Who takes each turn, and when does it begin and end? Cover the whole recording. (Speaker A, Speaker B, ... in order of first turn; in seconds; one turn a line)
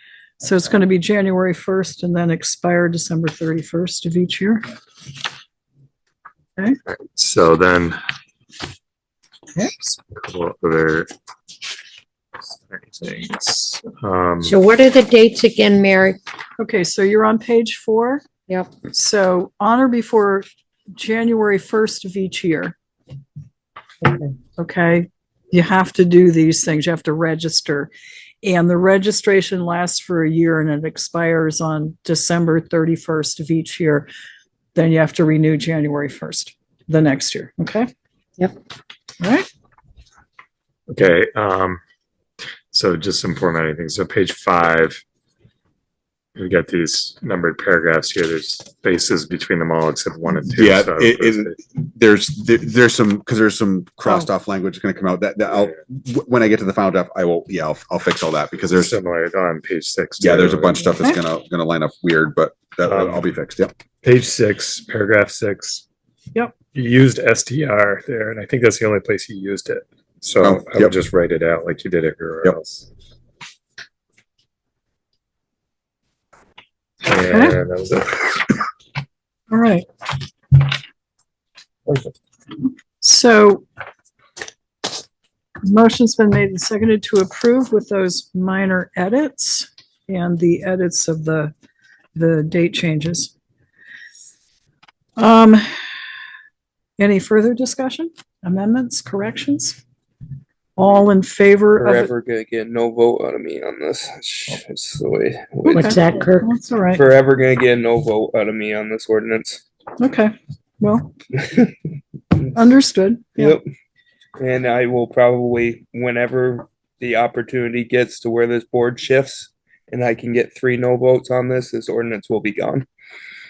Speaker A: 0.4-4.6
Speaker B: 7.0-8.0
Speaker B: 10.1-11.1
Speaker B: 12.6-14.6
Speaker C: 14.4-16.2
Speaker A: 16.6-18.3
Speaker C: 18.5-18.7
Speaker A: 18.8-20.4
Speaker A: 21.0-22.8
Speaker A: 24.4-27.9
Speaker A: 28.4-34.1
Speaker A: 34.8-37.9
Speaker A: 39.2-39.5
Speaker B: 40.9-41.8
Speaker B: 42.7-45.0
Speaker B: 46.4-51.5
Speaker D: 50.5-59.0
Speaker B: 58.8-61.0
Speaker D: 60.2-63.7
Speaker B: 62.8-63.3
Speaker B: 64.0-65.8
Speaker B: 66.7-72.9
Speaker D: 70.4-70.9
Speaker B: 77.0-78.6
Speaker A: 77.1-77.6
Speaker A: 79.5-79.8
Speaker A: 83.0-83.6
Speaker A: 85.7-91.5
Speaker A: 92.2-93.3
Speaker A: 95.2-95.6
Speaker A: 97.0-99.8
Speaker A: 100.8-102.1
Speaker E: 101.7-106.3
Speaker A: 105.7-107.0
Speaker C: 105.7-106.5
Speaker E: 106.9-109.6
Speaker A: 110.0-111.1
Speaker A: 112.5-113.6
Speaker E: 113.4-113.6
Speaker E: 114.4-122.8